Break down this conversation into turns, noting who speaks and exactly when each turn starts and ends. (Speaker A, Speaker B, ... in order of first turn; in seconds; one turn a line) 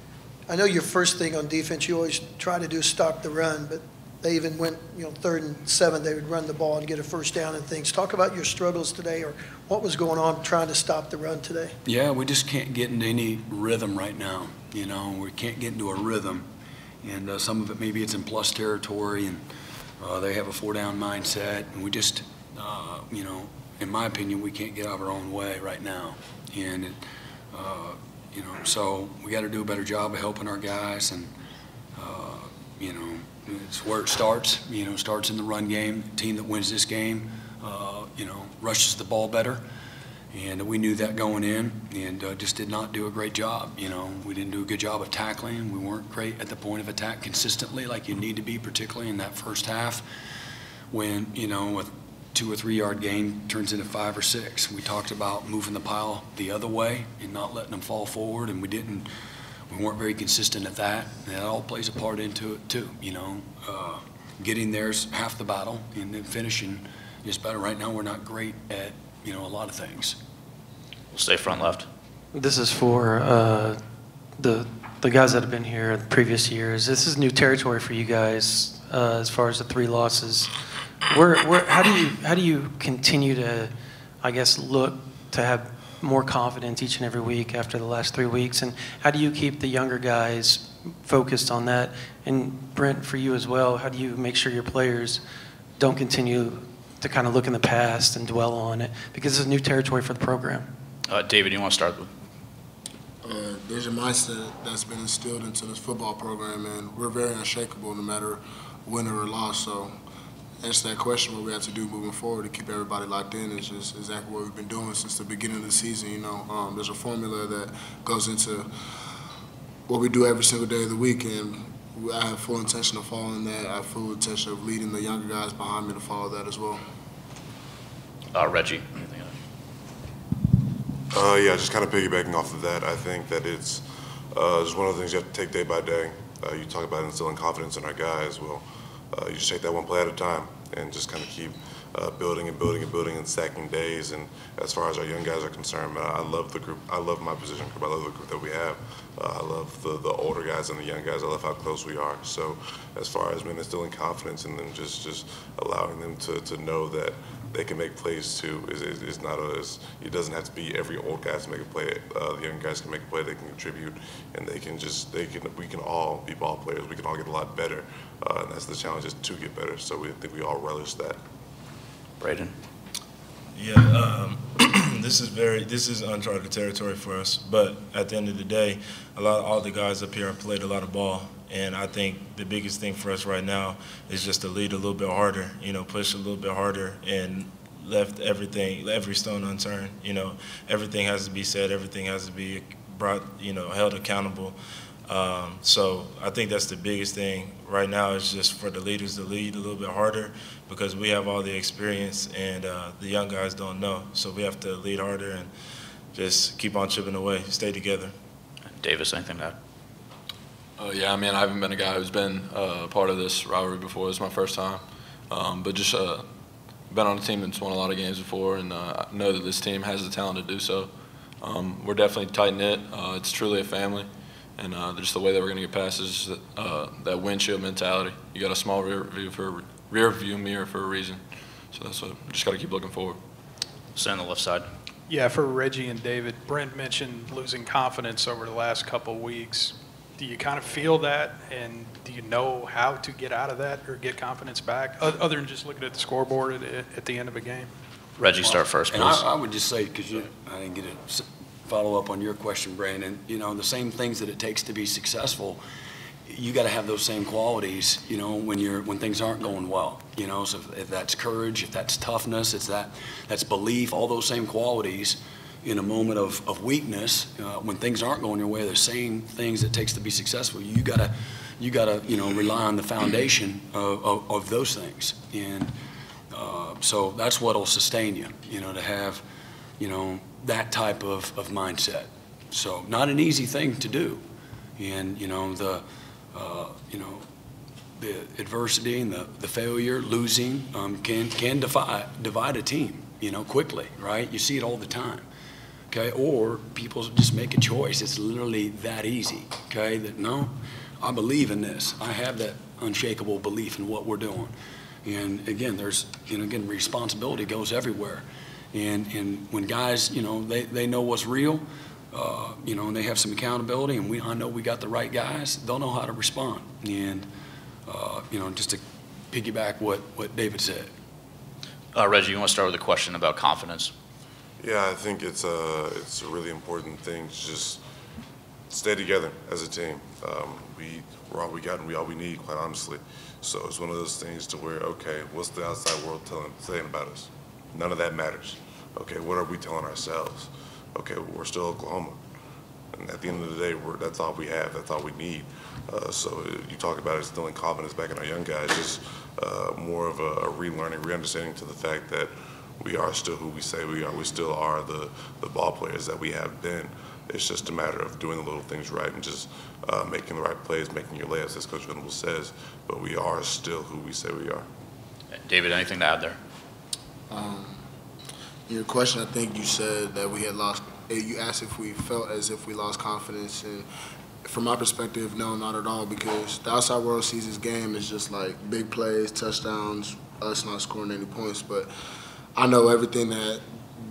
Speaker A: 0.5-11.7
Speaker B: 11.8-16.5
Speaker B: 17.0-19.4
Speaker B: 20.0-27.0
Speaker B: 27.5-31.3
Speaker B: 31.9-39.6
Speaker B: 40.3-50.0
Speaker B: 50.9-59.1
Speaker B: 59.7-70.2
Speaker C: 71.1-71.8
Speaker D: 72.3-73.8
Speaker D: 74.4-80.5
Speaker D: 81.1-95.2
Speaker D: 95.8-100.7
Speaker C: 101.1-102.1
Speaker E: 103.2-109.9
Speaker E: 110.6-118.7
Speaker E: 119.9-126.8
Speaker C: 128.3-129.3
Speaker F: 131.1-171.2
Speaker C: 172.2-172.5
Speaker G: 173.5-194.6
Speaker G: 195.1-205.5
Speaker G: 206.1-208.1
Speaker C: 208.7-209.6
Speaker H: 210.8-216.3
Speaker H: 216.9-233.2
Speaker C: 233.9-234.7
Speaker I: 235.1-247.7
Speaker C: 248.2-249.2
Speaker B: 248.4-255.6
Speaker B: 256.2-275.7
Speaker B: 276.3-279.2
Speaker B: 279.8-284.2
Speaker B: 284.8-287.2
Speaker B: 288.0-295.2
Speaker B: 295.9-317.3
Speaker B: 317.9-320.9
Speaker C: 321.9-323.9
Speaker F: 324.6-327.8
Speaker F: 328.7-342.2
Speaker F: 342.9-364.7
Speaker C: 365.3-366.4
Speaker E: 367.3-367.8
Speaker E: 368.7-373.9
Speaker E: 374.4-381.9
Speaker E: 382.5-383.6